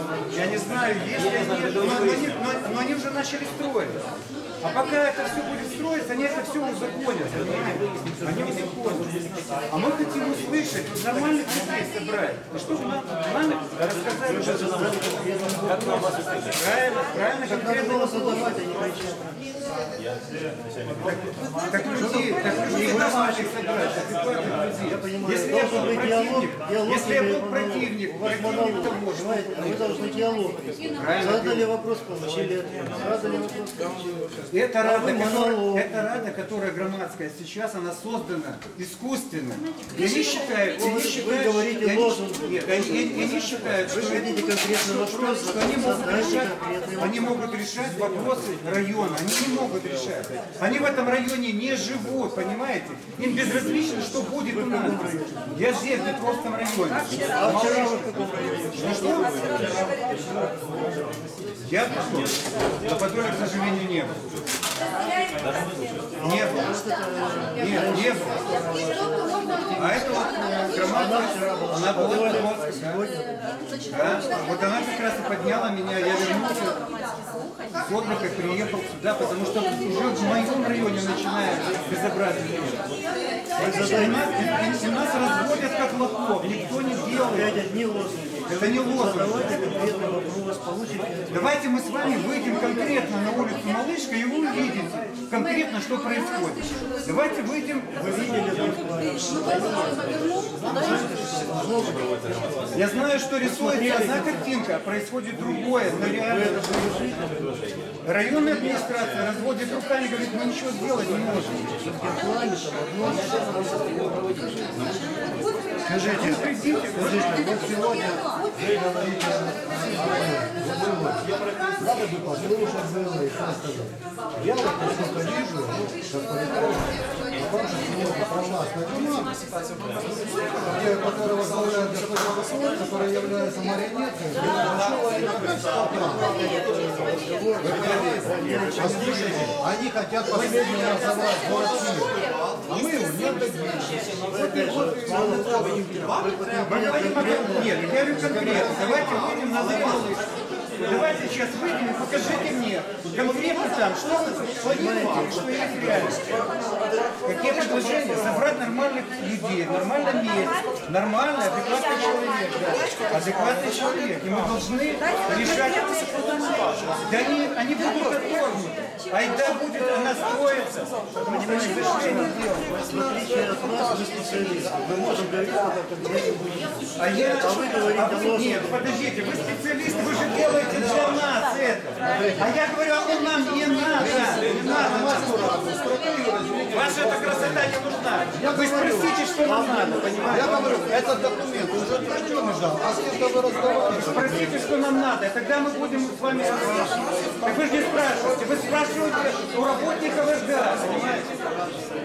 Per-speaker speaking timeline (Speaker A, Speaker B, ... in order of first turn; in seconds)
Speaker A: 0.3-4.0, 4.6-15.0, 16.5-18.6, 21.0-29.8, 31.0-31.7, 34.5-58.2, 58.7-59.3, 61.6-64.2, 66.2-66.8, 67.5-68.4, 69.8-73.0, 73.9-76.8, 77.8-82.8, 83.6-87.5, 88.5-89.5, 91.3-98.6, 102.7-106.9, 108.0-111.7, 115.9-117.4, 146.6-150.3, 150.8-156.2, 157.2-172.8, 177.0-185.5, 186.7-190.9, 193.8-201.3
Speaker B: 14.0-16.4, 17.4-19.6, 22.6-23.8, 24.8-35.9, 40.0-43.1, 43.9-47.4, 54.5-55.5, 57.3-59.8, 66.4-70.0, 70.8-73.5, 83.6-84.2, 87.3-91.5, 98.0-102.7, 103.4-104.5, 106.2-107.5, 111.8-114.9, 115.8-118.2, 135.8-139.6, 144.2-148.4, 154.6-156.1, 171.3-178.8, 182.1-182.4, 189.4-191.2
Speaker C: 117.1-118.0, 118.5-129.4, 130.5-136.3, 137.6-145.9, 148.2-149.1, 184.0-187.7, 188.3-189.1, 190.3-194.4